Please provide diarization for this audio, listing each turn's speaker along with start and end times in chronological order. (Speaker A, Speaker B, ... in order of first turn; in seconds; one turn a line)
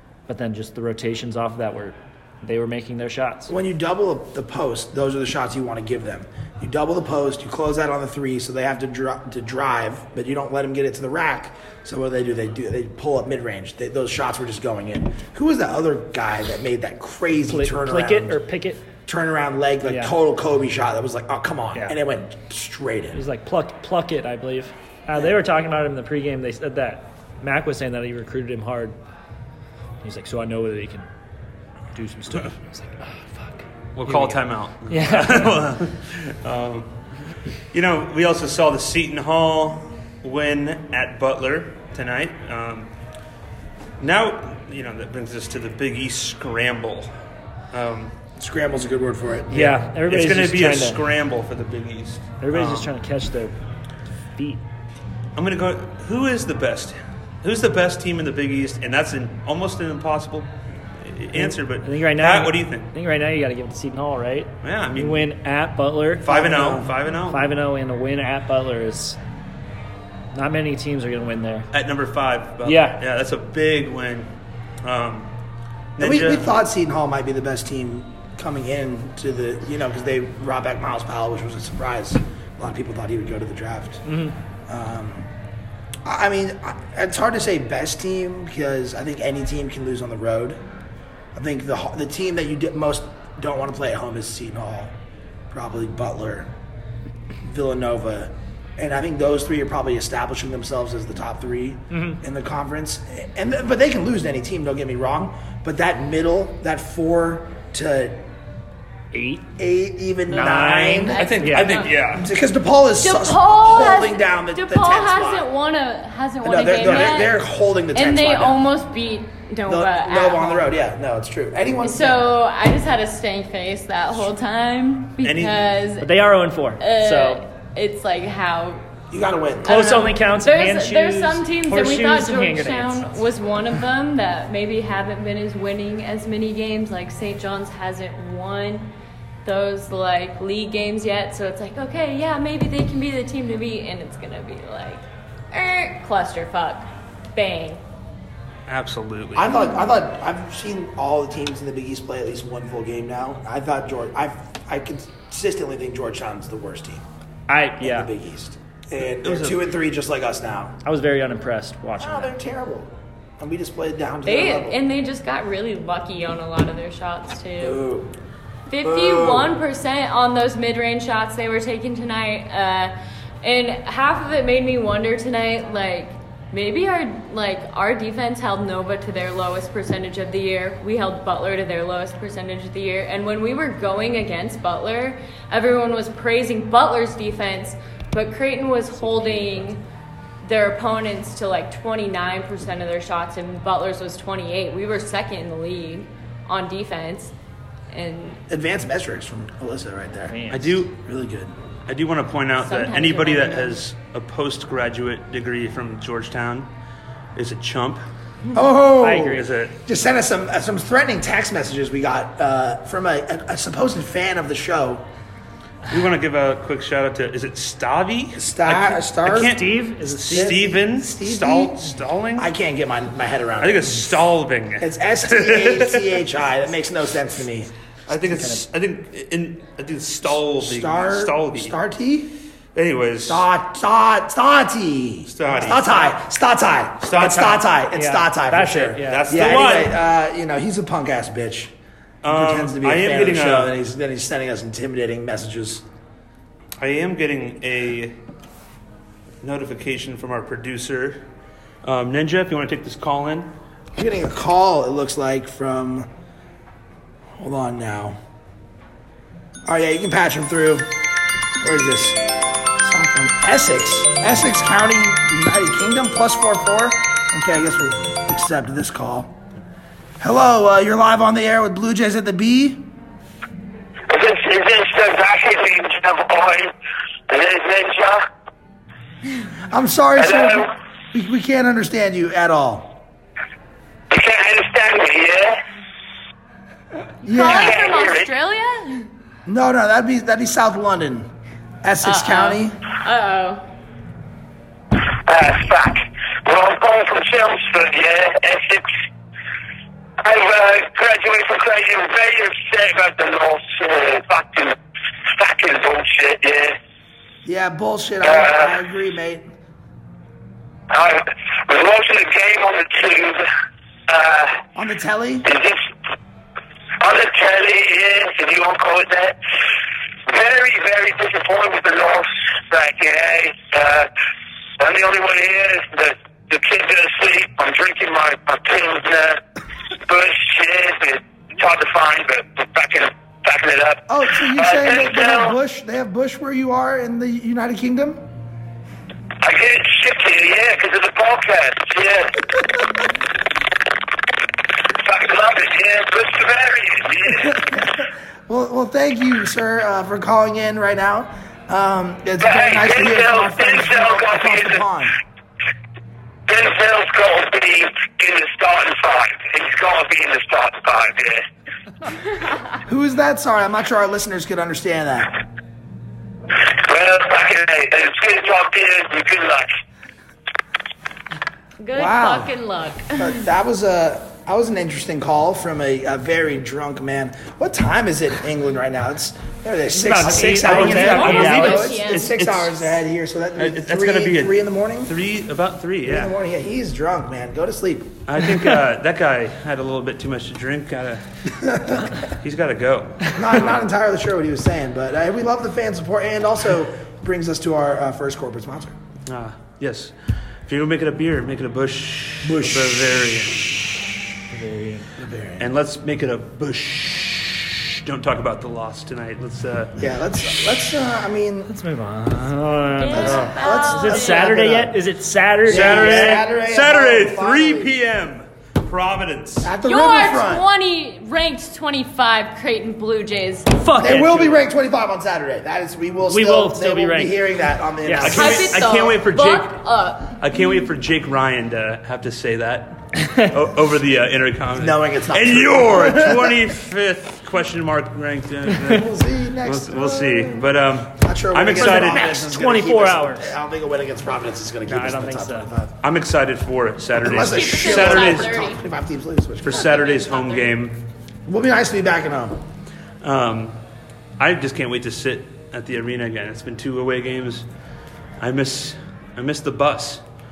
Speaker A: 0.3-3.5
Speaker B: 3.5-18.4
Speaker A: 17.5-18.9
Speaker B: 19.1-23.2
Speaker A: 19.8-20.2
Speaker A: 23.1-29.0
Speaker A: 30.0-31.1
Speaker A: 31.9-35.8
Speaker C: 34.0-37.1
Speaker C: 37.7-42.9
Speaker C: 44.0-47.1
Speaker C: 47.7-48.2
Speaker B: 48.4-49.8
Speaker A: 49.5-51.0
Speaker C: 49.7-52.9
Speaker A: 52.4-53.6
Speaker A: 54.4-54.6
Speaker C: 55.4-60.5
Speaker C: 61.0-62.9
Speaker A: 61.3-69.2
Speaker C: 64.6-65.3
Speaker C: 66.2-67.5
Speaker B: 66.3-66.9
Speaker A: 70.3-71.7
Speaker C: 71.7-74.3
Speaker A: 72.6-73.0
Speaker C: 74.8-75.3
Speaker C: 76.0-76.5
Speaker B: 76.0-84.0
Speaker A: 84.1-84.3
Speaker B: 84.7-85.3
Speaker B: 86.0-90.6
Speaker B: 91.3-95.0
Speaker B: 95.5-96.5
Speaker B: 97.4-108.2
Speaker A: 101.9-102.2
Speaker A: 109.1-109.5
Speaker B: 109.6-111.3
Speaker A: 110.3-111.8
Speaker D: 111.1-112.1
Speaker C: 111.2-112.3
Speaker B: 112.1-115.5
Speaker D: 113.0-117.4
Speaker B: 116.4-118.6
Speaker D: 118.0-120.7
Speaker B: 119.7-122.2
Speaker D: 121.8-126.3
Speaker C: 125.2-125.6
Speaker A: 126.0-127.4
Speaker D: 126.8-128.8
Speaker B: 129.1-129.8
Speaker D: 129.7-138.9
Speaker A: 129.7-133.2
Speaker D: 139.4-147.8
Speaker C: 148.7-149.5
Speaker B: 149.3-157.0
Speaker A: 157.5-158.1
Speaker B: 157.8-160.8
Speaker C: 159.2-159.6
Speaker A: 160.8-162.3
Speaker B: 162.0-164.8
Speaker D: 164.2-167.8
Speaker B: 167.6-168.1
Speaker D: 168.7-189.8
Speaker B: 168.8-169.5
Speaker A: 189.0-189.7
Speaker D: 190.4-197.3
Speaker D: 197.9-198.4
Speaker B: 198.5-201.5
Speaker A: 200.3-200.8
Speaker C: 200.5-201.0
Speaker C: 201.9-206.7
Speaker D: 202.6-203.8
Speaker C: 207.3-208.0
Speaker B: 208.5-215.1
Speaker A: 209.0-209.4
Speaker C: 209.3-209.8
Speaker C: 215.9-222.5
Speaker B: 218.4-219.6
Speaker A: 219.2-220.6
Speaker B: 220.3-227.7
Speaker C: 223.6-226.1
Speaker C: 228.1-231.8
Speaker A: 228.1-228.7
Speaker B: 230.6-232.3
Speaker C: 232.8-233.4
Speaker B: 233.2-241.7
Speaker C: 235.3-236.2
Speaker C: 237.0-237.6
Speaker A: 237.9-239.6
Speaker C: 239.0-240.0
Speaker C: 242.2-243.7
Speaker B: 242.3-245.8
Speaker C: 246.8-248.2
Speaker C: 249.4-251.2
Speaker C: 251.8-253.5
Speaker B: 253.9-256.1
Speaker B: 257.4-258.2
Speaker B: 259.7-260.9
Speaker B: 261.6-262.2
Speaker B: 262.8-269.4
Speaker B: 270.2-272.9
Speaker E: 274.1-276.7
Speaker E: 277.3-278.2
Speaker B: 279.7-283.0
Speaker E: 280.2-280.7
Speaker E: 284.1-285.6
Speaker B: 287.2-287.9
Speaker D: 287.2-289.1
Speaker E: 287.4-288.3
Speaker B: 289.4-291.3
Speaker B: 291.8-292.8
Speaker D: 292.0-293.6
Speaker E: 295.2-298.9
Speaker E: 300.2-306.8
Speaker B: 307.4-309.5
Speaker E: 308.2-308.7
Speaker E: 310.9-313.5
Speaker E: 314.1-314.6
Speaker B: 314.8-315.5
Speaker E: 315.4-315.9
Speaker E: 317.0-319.4
Speaker E: 320.3-324.1
Speaker E: 324.8-329.4
Speaker E: 330.1-335.6
Speaker B: 334.1-338.3
Speaker E: 339.4-342.4
Speaker E: 344.9-347.6
Speaker B: 347.3-355.2
Speaker E: 352.4-354.8
Speaker E: 356.5-361.4
Speaker B: 362.8-365.4
Speaker E: 366.6-369.7
Speaker D: 371.8-373.4
Speaker B: 371.9-372.5
Speaker B: 373.1-385.1
Speaker A: 379.9-381.9
Speaker D: 380.6-382.7
Speaker C: 380.6-382.9
Speaker C: 383.6-386.3
Speaker B: 386.0-388.2
Speaker C: 388.3-391.2
Speaker B: 391.5-392.2
Speaker C: 391.9-393.8
Speaker B: 393.3-398.9
Speaker C: 399.3-400.1
Speaker C: 400.7-403.7
Speaker B: 402.4-403.2
Speaker A: 404.5-405.1
Speaker B: 405.2-405.7
Speaker C: 405.6-410.0
Speaker B: 410.0-411.7
Speaker A: 411.7-416.4
Speaker D: 413.0-414.6
Speaker B: 413.1-415.0
Speaker B: 415.7-417.9
Speaker C: 415.7-419.8
Speaker B: 419.6-420.7
Speaker D: 419.8-423.8
Speaker A: 423.8-424.6
Speaker B: 424.0-428.9
Speaker A: 426.3-427.4
Speaker A: 428.0-428.4
Speaker C: 428.2-439.1
Speaker D: 428.2-430.4
Speaker B: 434.8-436.6
Speaker B: 438.9-446.0
Speaker C: 439.6-442.4
Speaker A: 441.7-443.5
Speaker A: 444.9-445.7
Speaker C: 446.0-448.7
Speaker B: 447.2-450.1
Speaker D: 447.3-448.8
Speaker C: 449.6-451.0
Speaker D: 449.7-450.8
Speaker B: 451.5-452.6
Speaker C: 453.2-453.8
Speaker C: 454.4-457.7
Speaker C: 458.4-460.2